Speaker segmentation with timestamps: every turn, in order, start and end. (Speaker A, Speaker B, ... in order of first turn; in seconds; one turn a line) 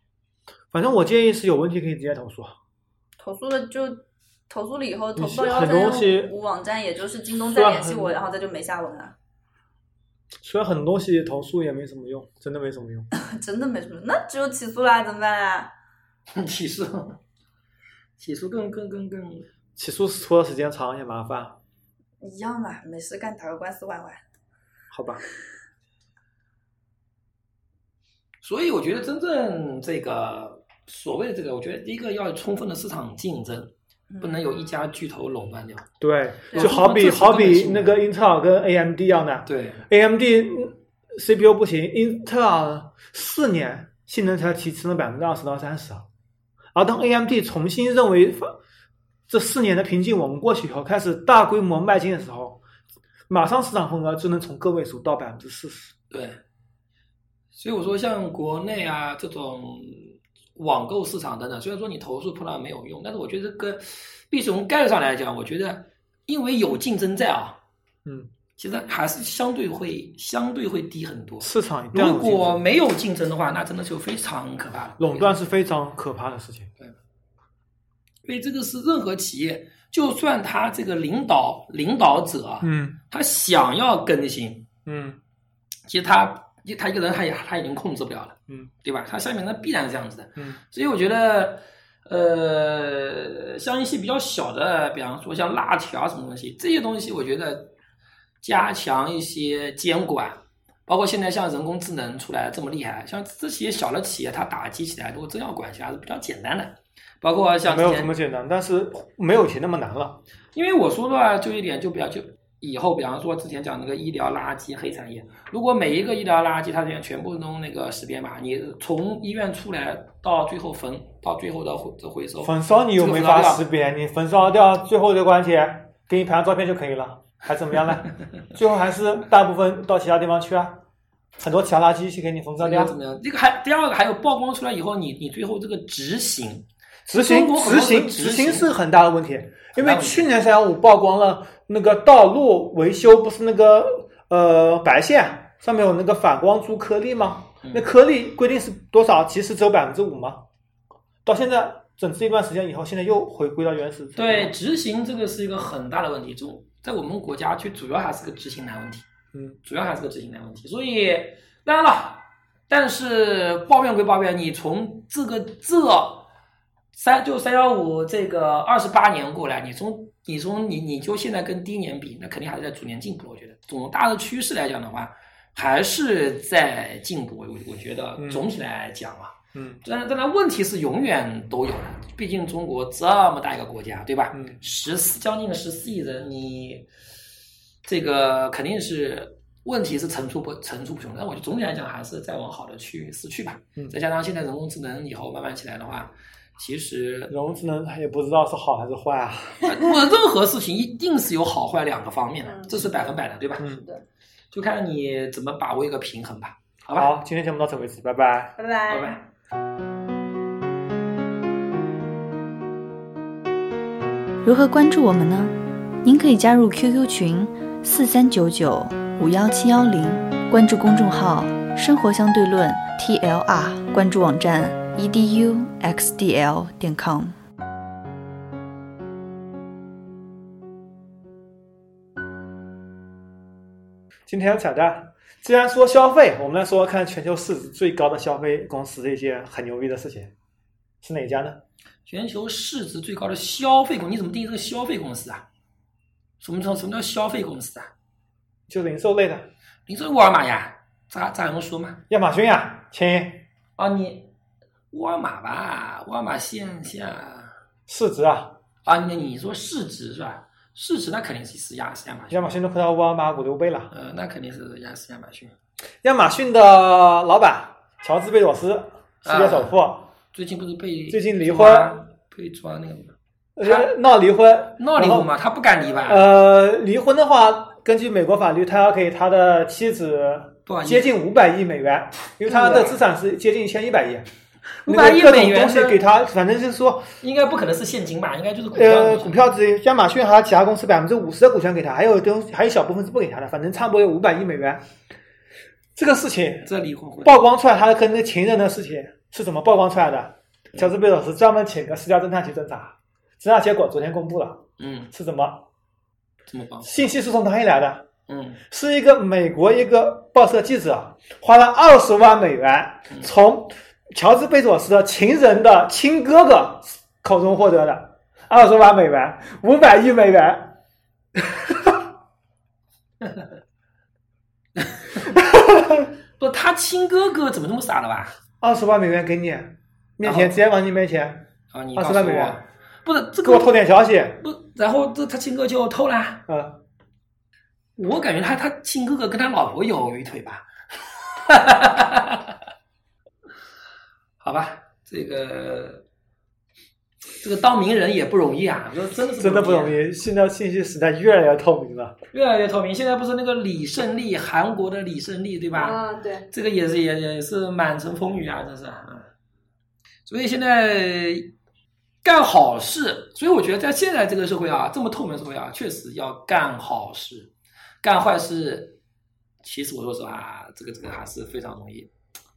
Speaker A: 0.7-2.6
Speaker B: 3.2-9.2
Speaker A: 5.2-6.3
Speaker A: 7.5-8.2
Speaker A: 10.4-13.1
Speaker B: 13.1-15.7
Speaker C: 16.3-17.2
Speaker C: 18.2-19.5
Speaker A: 19.8-21.6
Speaker B: 22.2-24.2
Speaker A: 24.9-25.2
Speaker C: 28.4-35.9
Speaker A: 36.0-46.1
Speaker C: 36.5-38.0
Speaker C: 39.5-39.8
Speaker A: 46.8-48.6
Speaker A: 49.3-52.6
Speaker A: 53.3-55.9
Speaker C: 56.1-56.4
Speaker C: 57.5-67.6
Speaker A: 68.1-68.3
Speaker C: 68.6-75.3
Speaker A: 71.4-72.6
Speaker A: 75.0-76.7
Speaker C: 78.2-84.7
Speaker A: 82.6-83.0
Speaker A: 84.9-85.2
Speaker C: 85.9-97.7
Speaker C: 98.4-108.1
Speaker A: 107.7-110.2
Speaker C: 110.5-123.6
Speaker A: 122.4-130.8
Speaker A: 131.4-132.9
Speaker C: 132.6-138.7
Speaker A: 137.1-150.4
Speaker C: 139.8-140.3
Speaker A: 151.2-154.5
Speaker C: 154.2-159.1
Speaker C: 159.6-166.3
Speaker C: 166.9-186.9
Speaker A: 178.2-178.5
Speaker A: 179.6-179.8
Speaker A: 184.3-184.6
Speaker C: 187.8-197.3
Speaker A: 197.3-199.7
Speaker C: 199.7-203.7
Speaker B: 202.4-204.0
Speaker A: 203.6-203.8
Speaker C: 204.5-207.1
Speaker A: 207.0-208.6
Speaker B: 208.6-209.2
Speaker C: 208.9-209.2
Speaker D: 214.4-227.4
Speaker A: 234.3-240.3
Speaker A: 241.0-241.6
Speaker C: 242.1-245.5
Speaker C: 246.4-247.9
Speaker A: 248.7-249.5
Speaker C: 249.9-252.0
Speaker A: 252.1-253.5
Speaker C: 253.8-254.3
Speaker C: 254.9-257.6
Speaker A: 257.9-258.6
Speaker C: 258.9-262.6
Speaker A: 262.3-263.9
Speaker C: 263.9-265.5
Speaker A: 266.0-270.1
Speaker C: 269.2-269.8
Speaker C: 270.3-273.9
Speaker A: 271.1-272.0
Speaker A: 273.6-275.3
Speaker C: 274.8-276.3
Speaker A: 276.1-284.3
Speaker C: 280.7-281.1
Speaker C: 282.4-283.0
Speaker C: 284.8-286.1
Speaker A: 284.9-287.1
Speaker C: 287.2-289.4
Speaker A: 288.7-294.8
Speaker A: 296.0-296.7
Speaker C: 296.7-297.4
Speaker A: 297.2-305.6
Speaker C: 304.8-305.1
Speaker C: 306.5-307.0
Speaker A: 306.8-308.1
Speaker C: 308.3-308.6
Speaker A: 308.6-320.8
Speaker A: 321.4-322.0
Speaker A: 325.2-326.1
Speaker C: 326.4-328.3
Speaker A: 328.6-332.6
Speaker C: 330.2-330.6
Speaker C: 331.7-333.8
Speaker A: 333.4-334.4
Speaker C: 334.4-336.4
Speaker A: 336.5-336.8
Speaker C: 338.0-342.6
Speaker C: 344.4-346.0
Speaker C: 347.4-350.0
Speaker A: 349.4-352.2
Speaker C: 352.3-359.3
Speaker B: 355.7-356.5
Speaker C: 360.3-361.5
Speaker C: 362.2-367.5
Speaker C: 368.0-369.0
Speaker C: 369.6-372.1